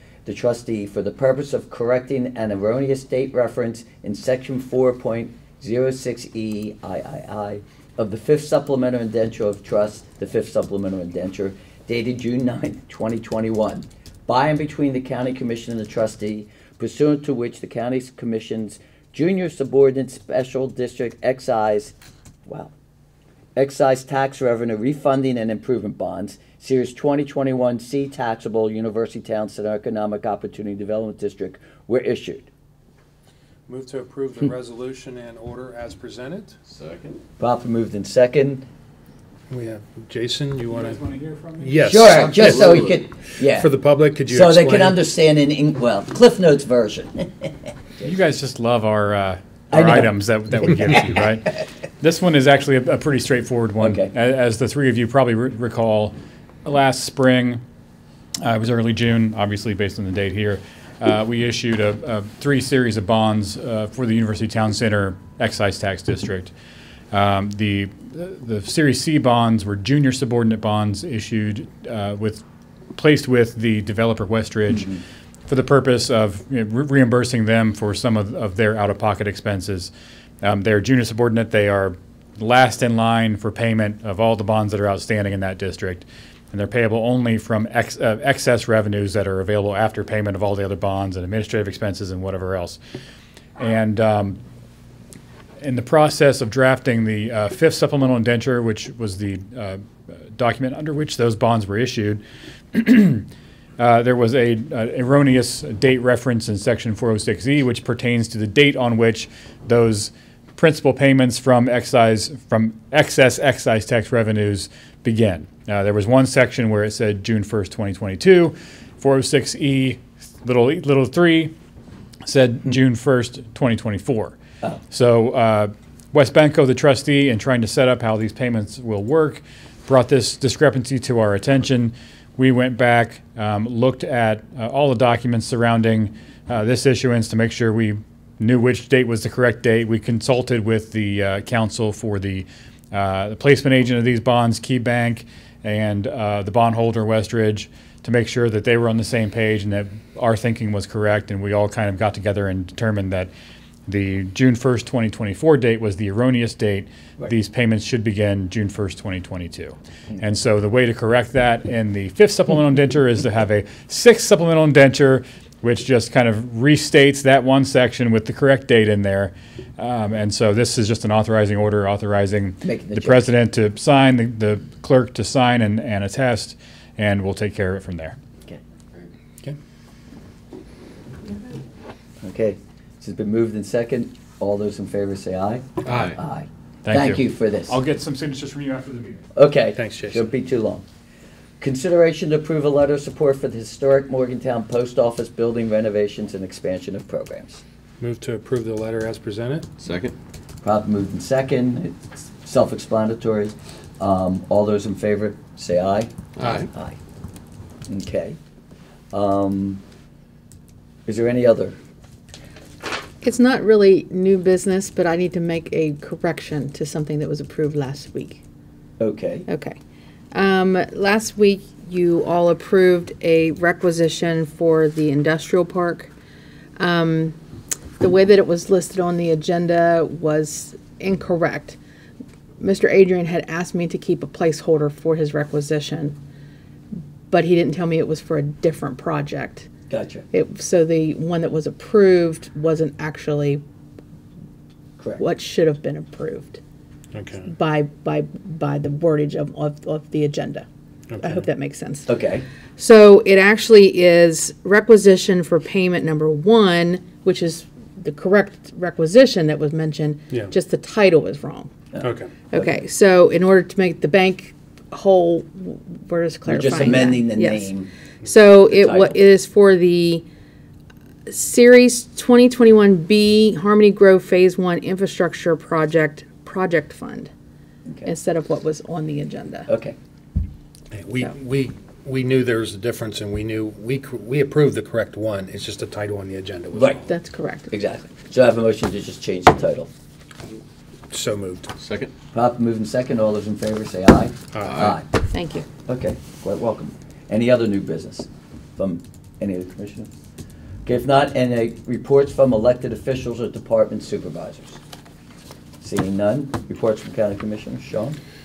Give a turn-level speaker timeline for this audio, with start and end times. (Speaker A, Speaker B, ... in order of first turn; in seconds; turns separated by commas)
Speaker A: 0.2-21.9, Speaker A: 22.4-22.7, Speaker A: 23.6-32.5, Speaker B: 33.7-36.6, Speaker C: 36.6-37.2, Speaker A: 37.4-38.7, Speaker B: 39.5-41.0, Speaker D: 40.7-42.2, Speaker B: 41.6-42.8, Speaker A: 41.8-43.7, Speaker C: 42.1-43.0, Speaker B: 43.3-45.0, Speaker A: 44.3-48.0, Speaker D: 48.0-57.6, Speaker A: 49.7-51.2, Speaker A: 53.8-54.1, Speaker D: 58.4-66.5, Speaker D: 67.1-79.9, Speaker D: 80.4-92.8, Speaker D: 93.6-94.4, Speaker D: 95.6-102.2, Speaker D: 102.7-103.2, Speaker D: 103.8-121.5, Speaker D: 122.2-124.4, Speaker D: 124.9-153.3, Speaker D: 153.9-178.2, Speaker A: 172.6-173.2, Speaker A: 182.2-187.8, Speaker C: 185.9-186.2, Speaker D: 186.8-189.3, Speaker A: 189.3-190.8, Speaker B: 189.8-190.3, Speaker A: 191.6-197.6, Speaker B: 198.0-199.7, Speaker C: 199.8-200.1, Speaker A: 200.6-207.0, Speaker C: 206.4-206.7, Speaker A: 207.9-208.4, Speaker A: 209.1-209.8, Speaker A: 211.1-211.8, Speaker E: 213.2-218.4, Speaker A: 219.0-219.5, Speaker E: 219.5-219.8, Speaker E: 220.3-226.1, Speaker E: 226.8-227.4, Speaker E: 228.0-231.8, Speaker E: 232.6-236.2, Speaker E: 237.3-239.7, Speaker A: 239.9-240.2, Speaker E: 240.3-243.6, Speaker E: 245.2-246.6, Speaker B: 247.1-247.5, Speaker E: 247.4-250.7, Speaker B: 251.1-251.4, Speaker E: 251.2-252.1, Speaker A: 252.1-252.4, Speaker E: 252.8-261.7, Speaker A: 261.9-262.7, Speaker B: 262.0-262.3, Speaker E: 262.5-270.2, Speaker A: 266.4-267.9, Speaker A: 268.7-269.2, Speaker E: 271.3-277.3, Speaker E: 278.0-279.7, Speaker A: 279.7-279.9, Speaker B: 280.9-287.1, Speaker A: 286.7-287.0, Speaker E: 287.1-287.7, Speaker A: 287.7-289.9, Speaker B: 291.1-291.7, Speaker C: 291.8-292.1, Speaker A: 292.3-295.0, Speaker B: 294.5-294.9, Speaker C: 294.6-295.0, Speaker E: 295.3-295.6, Speaker A: 295.9-300.1, Speaker A: 300.8-304.8, Speaker A: 305.8-308.2